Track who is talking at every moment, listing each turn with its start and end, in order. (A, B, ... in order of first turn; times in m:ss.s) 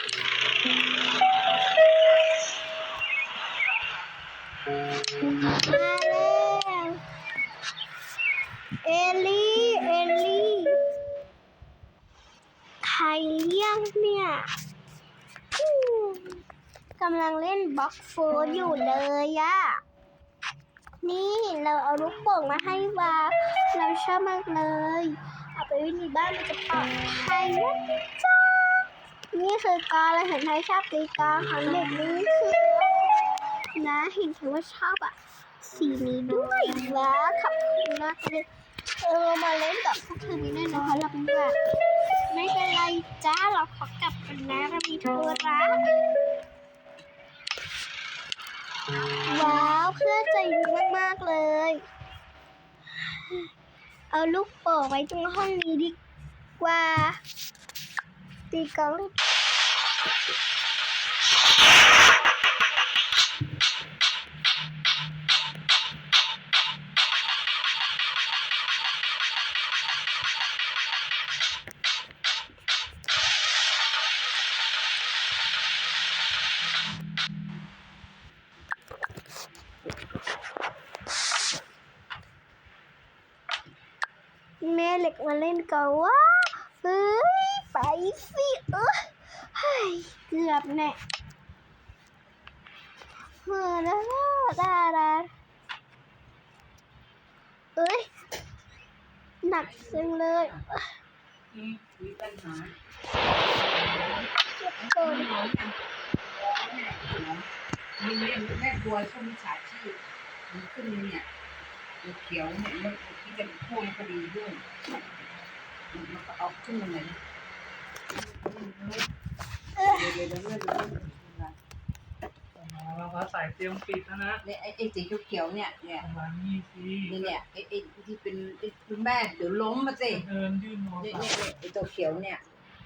0:05.3-0:07.0 A
0:08.8-0:10.8 A
0:12.8-0:14.5 A
0:15.6-0:16.4 A
0:17.0-0:19.8 A
0:21.0-0:28.7 A
0:29.3-0:38.5 A
0:39.0-0:41.6 A
0:42.3-0:45.8 A
0:49.2-0:51.8 A
0:53.1-0:53.5 A
0:54.1-0:56.0 A
0:56.6-0:57.2 A
0:58.5-0:59.2 A
1:24.6-1:31.0 A
1:33.4-1:35.3 A
1:37.8-1:38.1 A
1:39.4-1:40.8 A
1:39.6-1:40.6 B
1:41.5-1:42.8 B
1:43.6-1:47.5 B
1:44.4-1:45.3 A
1:48.0-1:51.2 B
1:52.0-1:54.6 B
1:55.9-1:57.2 B
1:58.1-1:59.1 B
1:59.8-2:00.2 A
1:59.9-2:01.6 B
2:02.6-2:04.4 C
2:04.4-2:06.1 B
2:06.0-2:07.4 C
2:07.0-2:10.2 B
2:10.1-2:11.5 C
2:11.0-2:12.4 B